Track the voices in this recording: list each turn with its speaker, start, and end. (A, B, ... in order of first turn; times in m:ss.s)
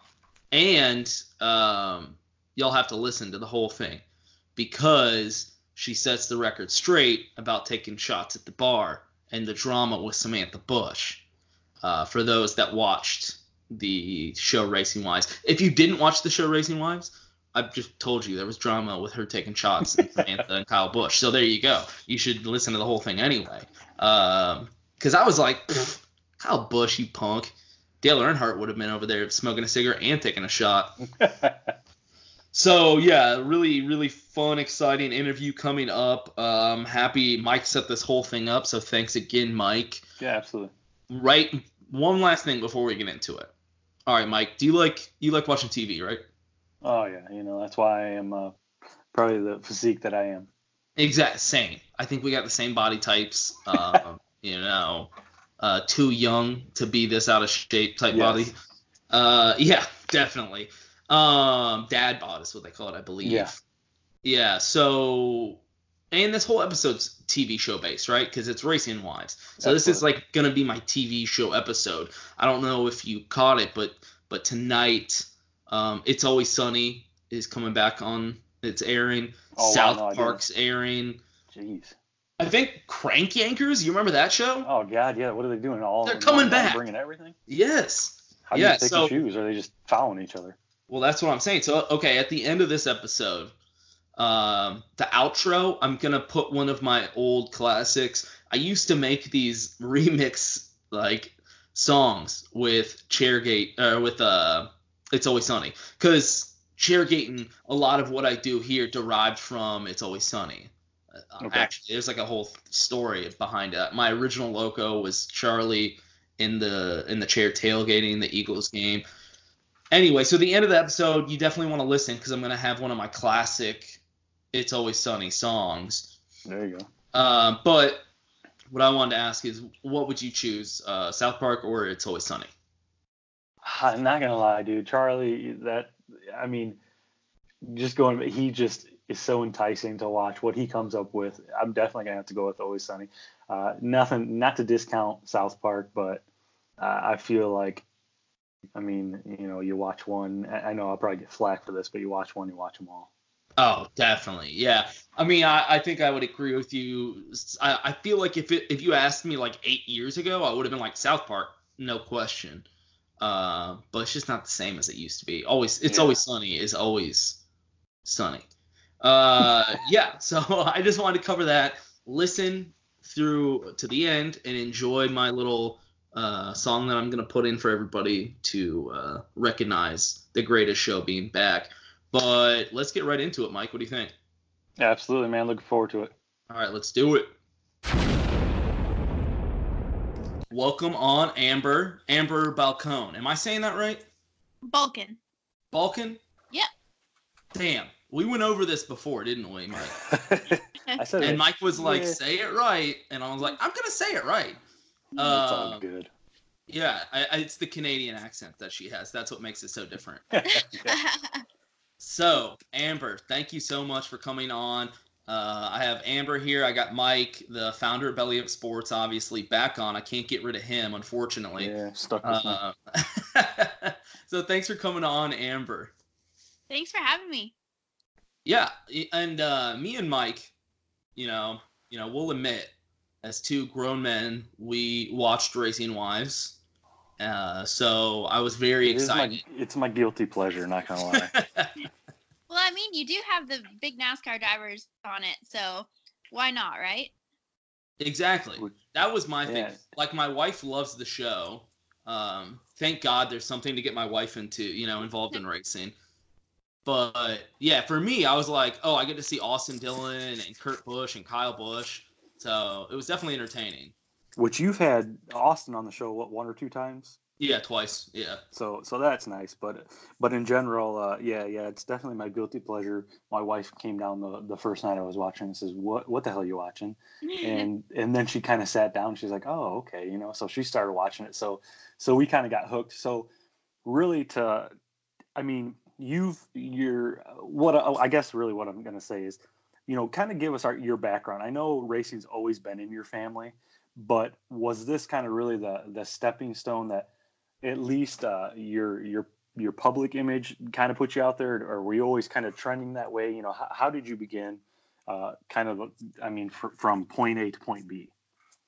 0:00.5-0:04.0 A
0:04.6-0:11.2 A
0:11.8-0:31.0 A
0:19.9-0:20.4 B
0:31.2-0:31.7 B
0:32.5-0:40.0 A
0:40.2-0:40.7 B
0:41.1-0:43.5 A
0:44.1-0:46.2 A
0:46.8-0:48.5 B
0:49.1-0:50.5 B
0:51.0-0:58.5 A
0:58.1-0:58.5 B
0:59.1-1:03.6 A
1:03.2-1:03.5 B
1:04.2-1:05.6 A
1:06.1-1:21.2 A
1:09.6-1:10.0 B
1:19.5-1:20.4 B
1:21.5-1:21.9 B
1:22.4-1:24.7 A
1:24.6-1:27.3 B
1:26.0-1:26.8 A
1:27.5-1:29.1 A
1:28.5-1:30.6 B
1:30.9-1:33.5 A
1:34.2-1:59.0 A
1:51.4-1:51.7 B
1:59.9-2:04.0 A
2:04.5-2:06.1 A
2:06.4-2:06.9 B
2:07.1-2:08.1 A
2:08.7-2:12.5 A
2:13.6-2:16.8 B
2:17.6-2:26.2 B
2:26.8-2:27.8 B
2:28.7-2:33.1 B
2:33.6-2:42.6 A
2:43.2-2:47.4 A
2:45.8-2:46.2 B
2:48.0-2:48.5 A
2:49.0-3:04.1 A
3:04.8-3:06.1 B
3:06.5-3:07.3 A
3:10.5-3:14.0 A
3:14.6-3:15.2 C
3:15.7-3:16.2 A
3:17.5-3:20.0 A
3:20.0-3:22.2 B
3:21.2-3:24.6 A
3:25.2-3:25.8 A
3:25.2-3:26.1 B
3:26.7-3:30.2 A
3:30.5-3:31.0 B
3:30.5-3:31.4 C
3:32.0-3:45.9 A
3:41.6-3:42.6 B
3:46.7-3:47.5 C
3:48.4-3:50.5 A
3:51.2-3:56.6 A
3:57.2-3:59.4 A
3:58.8-4:01.3 B
4:01.1-4:01.7 A
4:02.5-4:07.1 C
4:08.0-4:15.9 A
4:09.4-4:09.8 B
4:16.8-4:23.9 A
4:24.4-4:27.2 B
4:27.4-4:28.4 A
4:28.5-4:43.3 B
4:37.2-4:37.7 C
4:43.8-4:44.7 B
4:45.4-4:57.1 B
4:57.6-5:08.1 B